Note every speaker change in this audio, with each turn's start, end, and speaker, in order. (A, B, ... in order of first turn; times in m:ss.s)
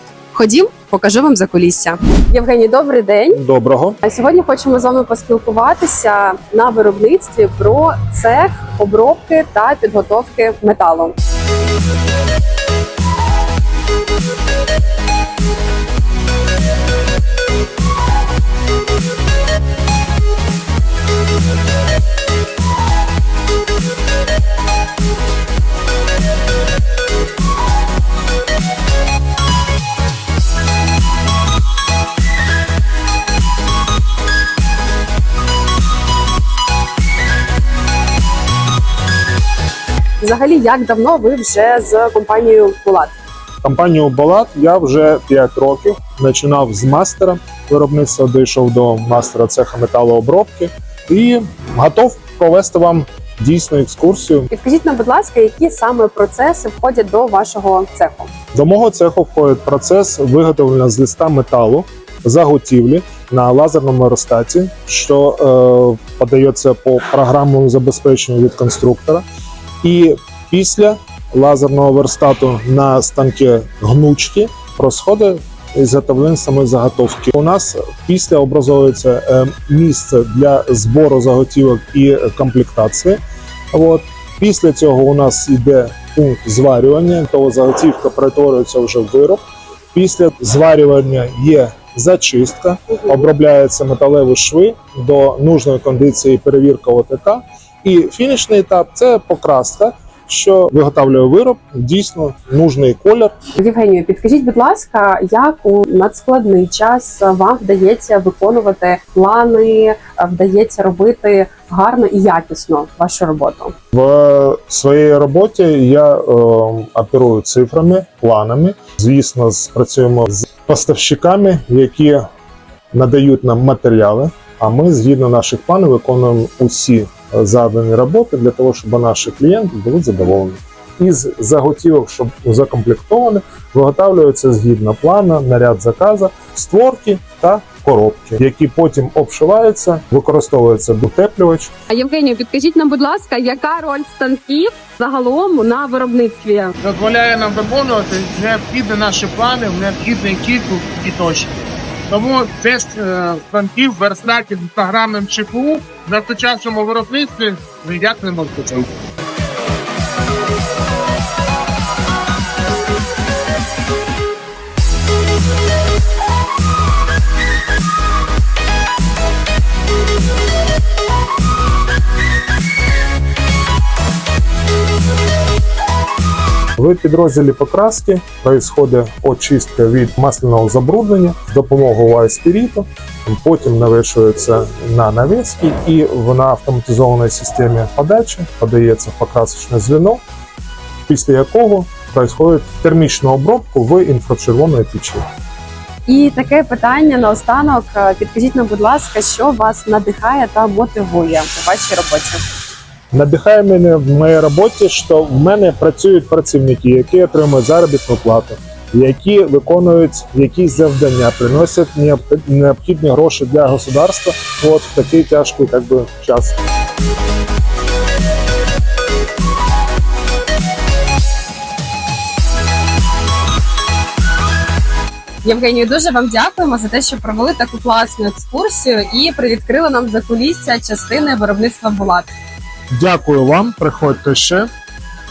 0:00.3-0:03.4 A
0:03.3-0:04.0 B
0:04.0-0:11.1 A
0:40.2-0:43.1 A
0:43.6-0:54.5 B
0:54.5-0:58.3 A
0:58.5-1:09.2 B
1:09.8-1:23.2 B
1:23.7-1:29.4 B
1:29.9-1:43.3 B
1:43.6-1:53.7 A
1:53.9-2:02.3 B
2:02.9-2:21.7 B
2:21.9-2:26.7 A
2:26.8-2:38.9 C
2:56.8-3:10.2 B
3:11.1-3:15.2 B
3:16.1-3:22.4 A
3:23.1-3:36.6 B
3:45.4-3:52.3 A
3:52.9-3:54.7 B